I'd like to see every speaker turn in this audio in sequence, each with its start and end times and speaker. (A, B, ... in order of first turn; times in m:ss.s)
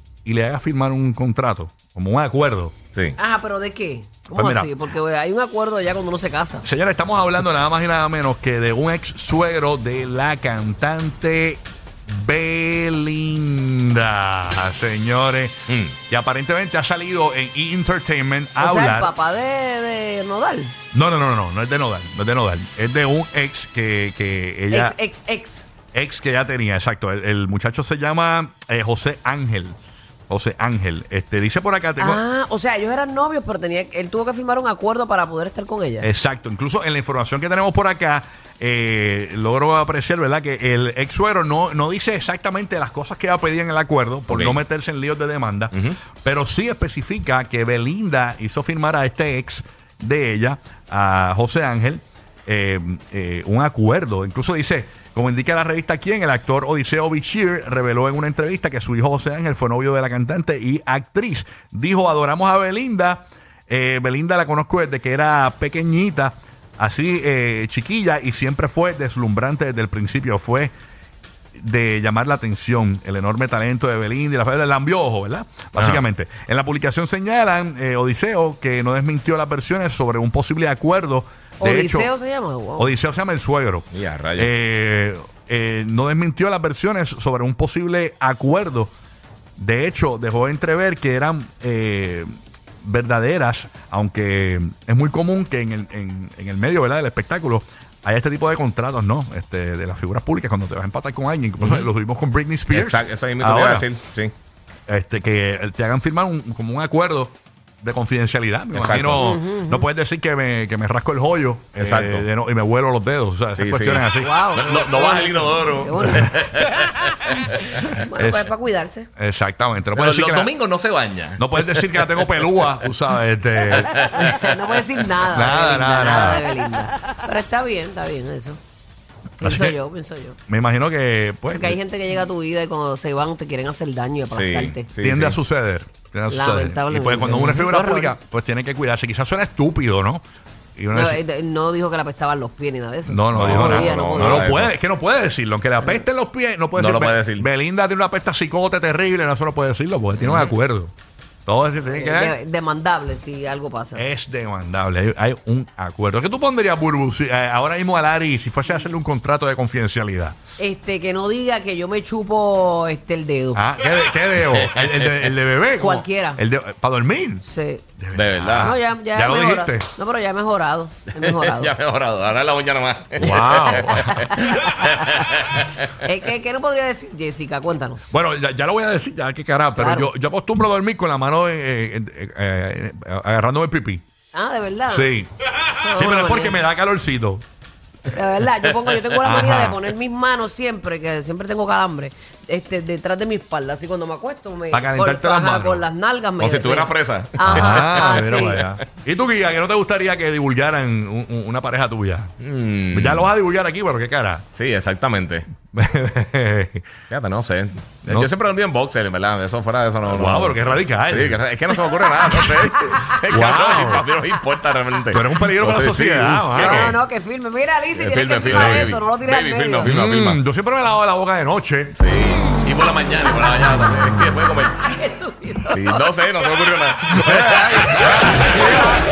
0:00.2-0:02.7 A
0:03.2-0:06.6 B
0:04.3-0:04.7 A
0:06.6-0:19.1 A
0:18.6-0:20.7 B
0:20.9-0:24.9 A
0:24.7-0:25.6 B
0:25.9-0:29.8 A
0:30.3-0:32.2 A
0:32.0-0:36.1 B
0:36.0-1:10.7 A
0:44.3-0:44.6 C
1:11.5-1:22.1 A
1:15.8-1:16.0 C
1:21.6-1:22.9 B
1:22.8-1:28.9 A
1:23.9-1:24.5 C
1:29.6-1:32.3 A
1:32.8-1:43.8 A
1:41.6-1:41.9 C
1:42.7-1:44.3 C
1:44.9-1:54.3 A
1:48.7-1:49.2 C
1:49.2-1:49.9 B
1:51.7-1:52.2 C
1:53.6-1:57.8 C
1:54.2-1:56.4 B
1:56.0-1:56.5 A
1:57.7-1:59.1 B
1:58.2-1:58.5 A
1:59.2-2:00.5 A
1:59.9-2:02.9 C
2:01.4-2:04.0 A
2:03.6-2:04.8 C
2:04.1-2:08.6 B
2:05.3-2:06.4 A
2:09.4-2:10.4 B
2:09.4-2:09.7 A
2:10.5-2:11.8 A
2:11.5-2:14.8 B
2:14.3-2:15.4 C
2:15.0-2:20.2 A
2:16.3-2:18.1 B
2:20.8-2:21.2 A
2:20.9-2:24.5 B
2:23.0-2:30.9 A
2:23.3-2:24.7 C
2:26.7-2:27.5 C
2:30.2-2:30.5 C
2:31.4-2:32.3 A
2:31.8-2:34.1 B
2:33.9-2:40.4 A
2:40.6-2:43.6 B
2:43.5-2:47.4 A
2:44.4-2:45.3 C
2:45.8-2:46.4 B
2:47.4-2:47.8 B
2:48.0-2:49.9 A
2:48.1-2:48.7 C
2:48.6-2:51.7 B
2:51.2-2:55.8 C
2:53.2-2:54.2 A
2:53.7-2:54.8 B
2:56.0-2:58.1 B
2:58.1-3:04.0 A
2:59.7-3:00.1 B
3:04.3-3:05.1 B
3:04.9-3:05.3 A
3:05.7-3:06.6 B
3:05.9-3:07.4 A
3:08.1-3:18.6 B
3:09.2-3:09.8 A
3:14.7-3:15.8 A
3:16.4-3:18.6 C
3:17.4-3:22.3 A
3:22.4-3:23.3 C
3:22.9-3:24.4 A
3:24.5-3:25.5 C
3:25.7-3:26.9 A
3:27.1-3:36.9 C
3:30.0-3:31.4 A
3:31.9-3:33.1 B
3:33.3-3:34.0 A
3:33.7-3:34.2 B
3:35.1-3:36.9 A
3:36.5-3:39.9 B
3:37.9-3:40.4 C
3:38.4-3:39.0 A
3:39.8-3:42.0 A
3:41.9-3:44.8 C
3:44.7-3:46.2 B
3:45.7-3:49.0 C
3:47.2-3:47.6 A
3:48.0-3:48.9 B